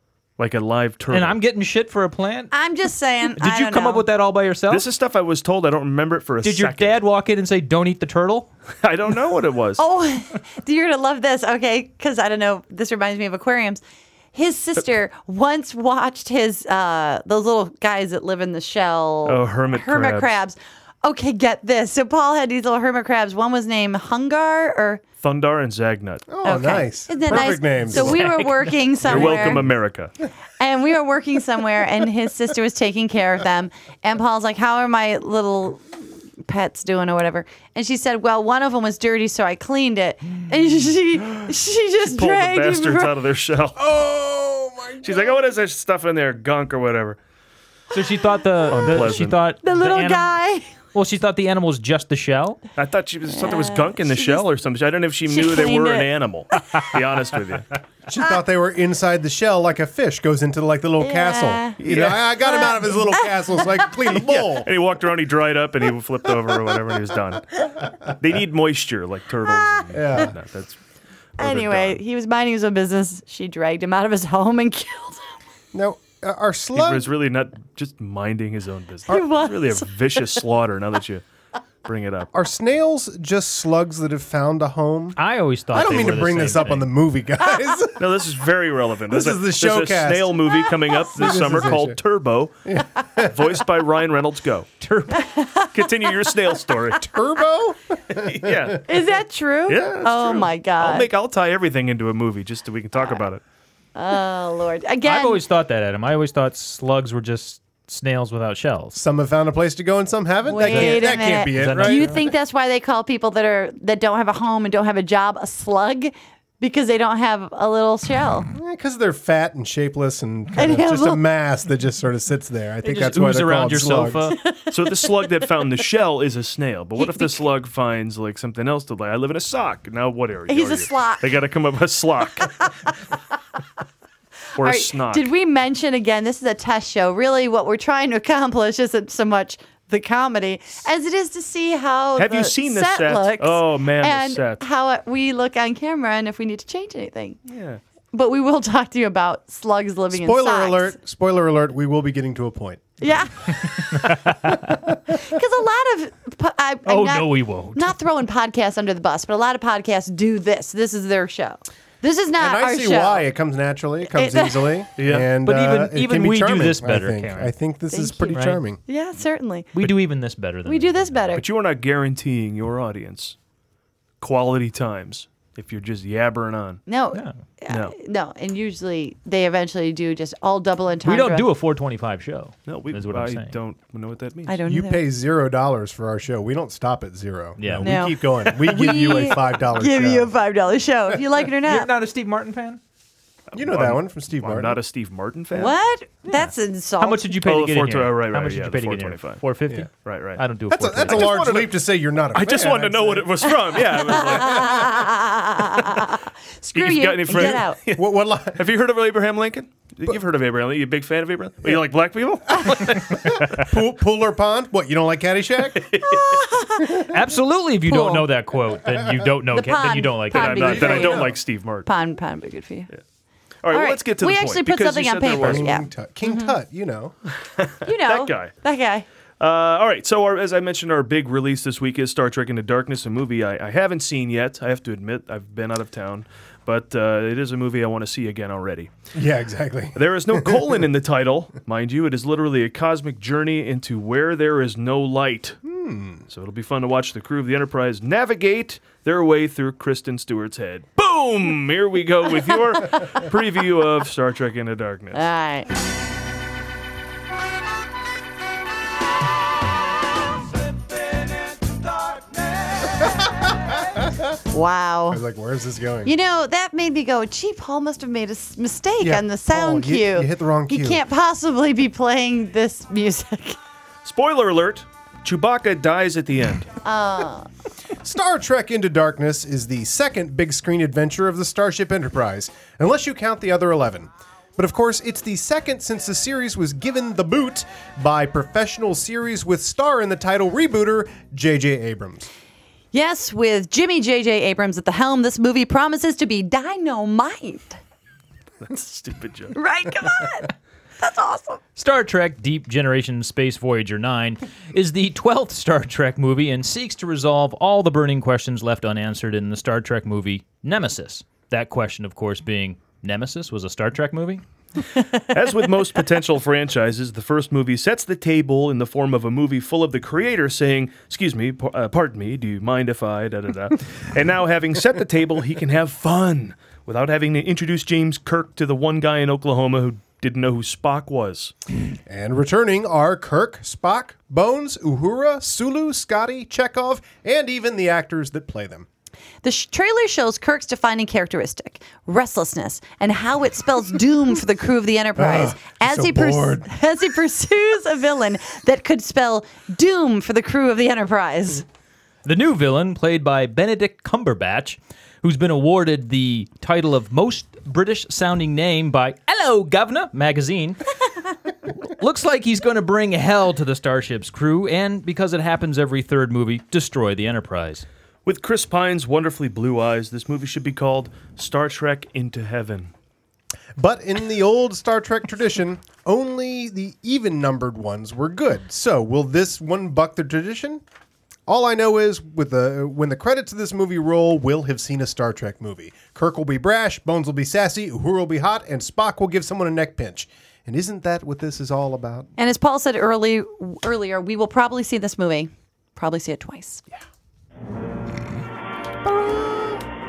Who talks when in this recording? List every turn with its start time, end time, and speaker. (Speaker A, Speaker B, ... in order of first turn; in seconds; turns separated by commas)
Speaker A: 0.4-1.4, Speaker B: 1.1-2.5, Speaker C: 2.5-4.0, Speaker B: 3.3-4.9, Speaker A: 4.7-7.0, Speaker B: 6.4-8.5, Speaker A: 8.8-9.8, Speaker C: 9.8-13.8, Speaker C: 14.3-25.0, Speaker A: 19.2-20.3, Speaker A: 25.2-26.2, Speaker D: 26.3-28.3, Speaker C: 26.4-29.7, Speaker B: 27.3-29.5, Speaker A: 29.0-30.1, Speaker C: 30.6-35.9, Speaker C: 36.4-43.1, Speaker A: 42.0-43.8, Speaker D: 43.8-45.4, Speaker A: 45.0-47.2, Speaker B: 47.9-50.3, Speaker A: 48.7-49.4, Speaker C: 48.9-50.6, Speaker B: 50.9-52.6, Speaker A: 52.8-57.7, Speaker C: 53.3-54.5, Speaker C: 55.3-56.1, Speaker D: 58.1-64.7, Speaker C: 61.0-61.8, Speaker A: 61.8-62.3, Speaker C: 62.4-63.6, Speaker A: 64.1-70.8, Speaker C: 69.5-70.3, Speaker D: 69.9-70.3, Speaker A: 71.4-72.0, Speaker C: 71.4-75.3, Speaker D: 75.7-77.1, Speaker A: 76.7-81.2, Speaker C: 79.1-80.4, Speaker A: 81.8-82.3, Speaker D: 82.3-85.2, Speaker B: 85.2-86.9, Speaker D: 85.7-88.3, Speaker A: 88.0-94.7, Speaker D: 89.1-90.5, Speaker C: 90.7-91.0, Speaker D: 91.1-92.0, Speaker D: 92.7-93.4, Speaker B: 94.8-95.3, Speaker C: 95.2-95.7, Speaker A: 95.7-97.0, Speaker D: 97.0-98.8, Speaker A: 98.1-99.1, Speaker C: 98.9-101.1, Speaker A: 99.7-103.4, Speaker C: 104.0-105.4, Speaker B: 105.0-109.0, Speaker D: 108.9-112.1, Speaker C: 110.5-118.5, Speaker B: 110.7-112.2, Speaker D: 118.5-124.3, Speaker C: 120.6-121.2, Speaker B: 122.8-124.4, Speaker C: 124.3-125.7, Speaker A: 124.7-132.6, Speaker C: 127.0-127.5, Speaker C: 130.5-131.3, Speaker A: 134.6-135.3, Speaker C: 134.6-147.4, Speaker A: 142.2-144.6, Speaker A: 147.5-147.8, Speaker C: 148.1-150.9, Speaker D: 150.1-153.0, Speaker C: 153.0-154.2, Speaker B: 154.0-154.6, Speaker D: 154.4-155.3, Speaker C: 155.1-163.3, Speaker B: 156.9-157.9, Speaker D: 162.4-168.8, Speaker C: 164.1-164.8, Speaker A: 165.0-165.3, Speaker B: 165.4-167.5, Speaker C: 167.9-169.8, Speaker B: 168.3-168.6, Speaker B: 169.8-171.4, Speaker C: 170.7-171.4, Speaker A: 171.3-173.4, Speaker A: 174.2-176.8, Speaker C: 176.9-181.5, Speaker A: 177.7-177.9, Speaker B: 181.0-183.6, Speaker A: 182.7-184.6, Speaker C: 184.5-185.0, Speaker D: 184.7-190.3, Speaker B: 187.6-188.0, Speaker C: 187.8-191.9, Speaker B: 191.7-192.8, Speaker A: 193.5-195.8, Speaker D: 193.6-194.8, Speaker C: 195.6-197.3, Speaker B: 196.3-201.4, Speaker A: 197.4-199.4, Speaker A: 200.0-200.4, Speaker D: 200.7-203.5, Speaker A: 201.1-201.8, Speaker A: 202.3-205.1, Speaker C: 203.8-207.8, Speaker D: 204.1-204.4, Speaker A: 206.7-213.8, Speaker D: 207.3-208.6, Speaker D: 212.6-215.9, Speaker A: 215.8-216.3, Speaker C: 216.0-217.2, Speaker B: 217.1-220.9, Speaker C: 217.9-218.3, Speaker C: 219.5-221.3, Speaker A: 220.3-221.9, Speaker D: 220.7-221.4, Speaker C: 221.9-222.9, Speaker A: 223.6-225.7, Speaker C: 223.7-226.6, Speaker D: 225.4-227.2, Speaker A: 227.5-228.6, Speaker C: 227.8-229.1, Speaker A: 229.4-238.9, Speaker D: 239.1-240.8, Speaker A: 239.9-245.6, Speaker D: 245.6-246.2, Speaker A: 246.3-255.2, Speaker C: 255.1-255.7, Speaker D: 263.0-264.3, Speaker C: 264.5-265.2, Speaker D: 265.1-266.1, Speaker C: 266.1-273.6, Speaker D: 269.0-271.0, Speaker A: 274.0-276.7, Speaker C: 276.9-277.5, Speaker D: 278.0-292.3, Speaker C: 292.9-297.8, Speaker A: 298.6-299.6, Speaker C: 299.6-301.6, Speaker B: 301.8-314.4, Speaker A: 315.3-331.5, Speaker D: 332.1-338.9, Speaker C: 339.4-351.7, Speaker D: 345.2-346.7, Speaker B: 352.2-360.8, Speaker B: 361.9-367.9, Speaker A: 368.2-372.9, Speaker D: 373.8-380.8, Speaker D: 381.5-392.3, Speaker C: 392.4-396.8, Speaker D: 399.0-399.8